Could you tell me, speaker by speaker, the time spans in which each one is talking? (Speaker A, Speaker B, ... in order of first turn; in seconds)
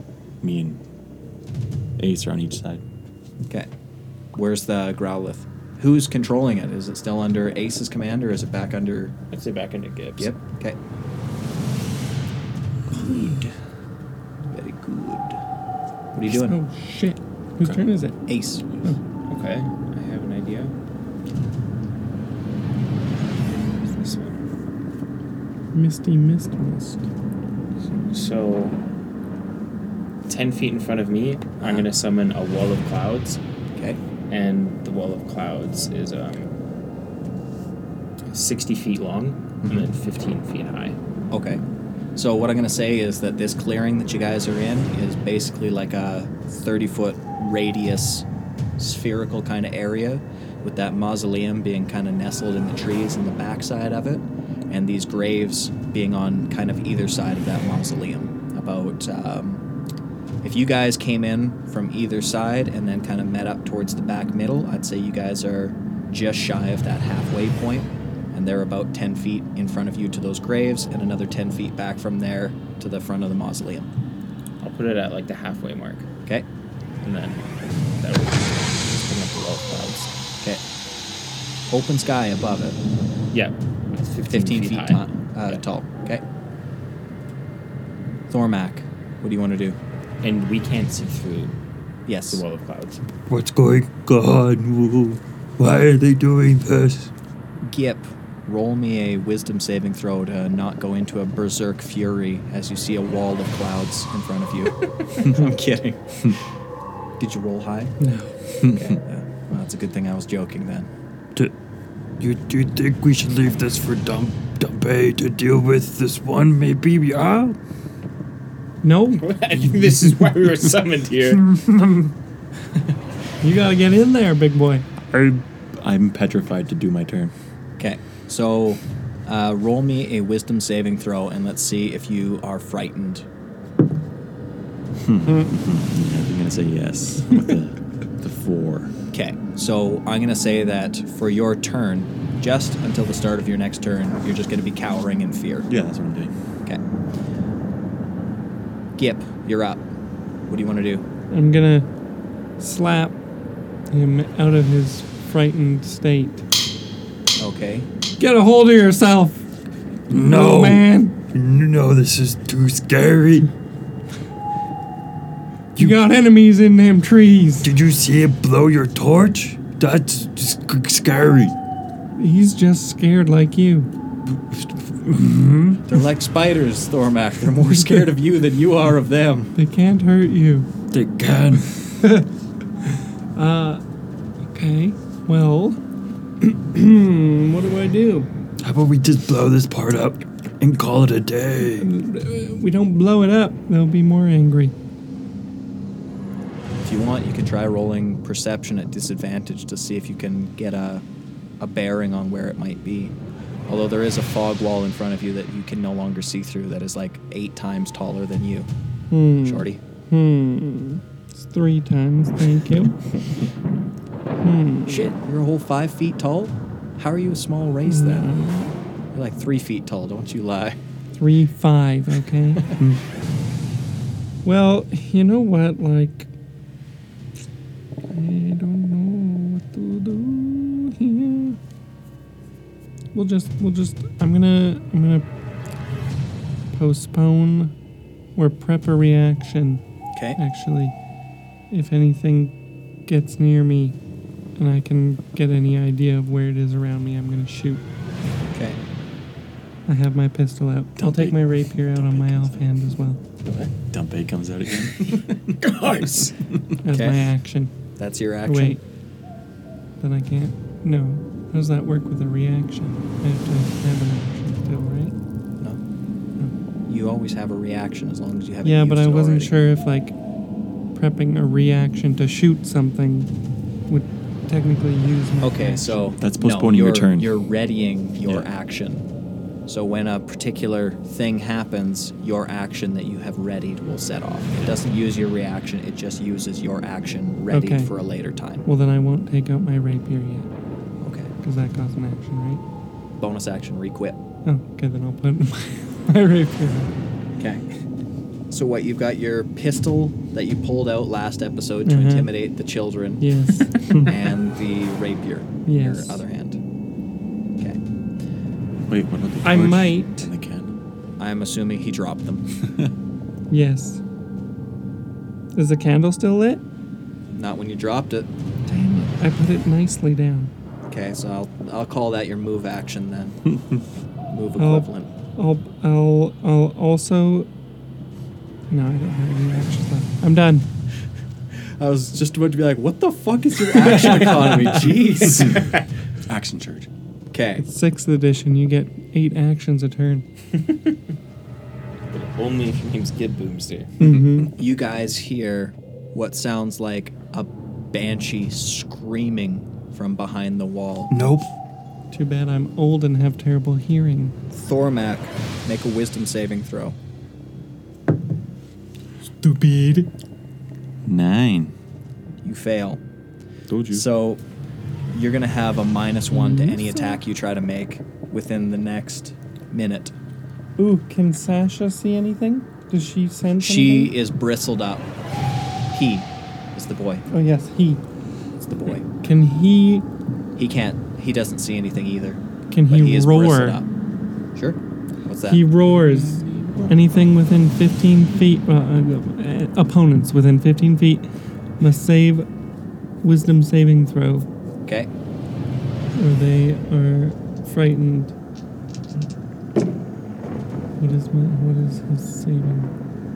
Speaker A: 0.4-0.8, 2.0-2.8, 125.1-127.3, 135.0-138.9, 145.7-146.3, 251.0-252.8, 253.8-255.5, 276.2-277.3, 308.9-310.8, 334.6-336.9, 361.0-361.7, 363.7-364.0
Speaker B: 4.3-9.1, 10.2-10.8, 12.9-13.5, 14.5-15.4, 16.1-16.6, 18.3-18.6, 31.6-31.9, 39.6-39.9, 41.3-41.6, 42.1-48.2, 48.8-59.6, 60.4-73.9, 81.7-82.8, 84.3-86.2, 88.3-89.8, 92.0-92.4, 97.7-106.4, 107.2-107.9, 108.6-110.9, 127.8-133.2, 139.1-145.7, 149.0-149.8, 150.5-151.0, 157.4-157.9, 175.9-179.5, 196.8-201.0, 201.6-203.2, 203.7-208.7, 209.4-209.8, 214.8-218.3, 219.1-220.8, 248.5-248.8, 256.9-257.2, 258.0-258.8, 266.9-269.5, 275.4-279.1, 279.7-288.6, 291.0-291.3, 293.2-294.2, 297.4-297.6, 298.5-303.2, 303.9-306.6, 311.2-312.4, 317.3-318.3, 320.9-323.5, 324.3-325.1, 331.5-335.7, 337.3-337.6, 344.6-351.1, 354.5-357.0, 362.4-363.0, 363.9-364.4, 365.1-370.1, 373.6-375.1, 375.9-377.2, 378.6-379.1, 380.6-383.9, 384.5-385.6
Speaker C: 9.3-10.3, 19.3-20.8, 23.8-24.4, 27.9-28.8, 30.3-33.4, 34.3-36.5, 38.3-41.0, 74.6-76.0, 77.0-80.1, 83.3-85.6, 90.2-91.5, 92.3-93.0, 119.2-121.5, 253.4-253.7, 255.5-256.3, 335.4-335.8, 340.6-340.9, 342.1-343.9, 386.3-386.8
Speaker D: 16.3-18.2, 25.7-27.0, 108.0-108.3, 118.8-119.3, 123.4-124.8, 151.3-151.9, 152.6-153.2, 153.9-156.4, 158.2-159.4, 160.2-161.1, 165.8-167.7, 172.2-173.9, 179.6-180.7, 182.0-182.3, 183.0-183.8, 184.5-185.8, 186.4-188.3, 191.8-194.7, 209.1-213.3, 214.4-215.1, 217.8-218.7, 221.2-222.7, 224.4-226.3, 228.1-231.6, 233.1-235.2, 236.7-237.7, 238.3-239.8, 240.4-240.9, 241.7-242.5, 243.1-244.0, 244.6-247.8, 249.9-253.2, 256.8-257.7, 258.5-258.8, 260.0-265.1, 268.6-270.1, 270.9-273.3, 273.9-276.2, 287.5-287.9, 288.6-290.5, 291.4-292.6, 294.4-296.9, 301.9-302.3, 303.2-304.2, 305.6-306.2, 309.4-310.3, 313.5-314.0, 315.5-316.6, 318.7-320.5, 324.6-327.5, 328.7-330.7, 337.6-340.2, 344.0-344.5, 352.1-354.4, 359.4-360.1, 366.3-367.2, 370.8-374.1, 377.3-378.0, 379.1-380.1, 382.7-383.8, 385.5-391.3, 391.8-392.5, 393.2-394.4, 396.1-398.3, 401.0-402.9
Speaker E: 93.3-97.1, 112.2-117.6, 121.3-122.1, 160.1-163.5, 167.6-171.5, 174.3-175.8, 180.9-181.9, 188.6-191.9, 351.1-351.5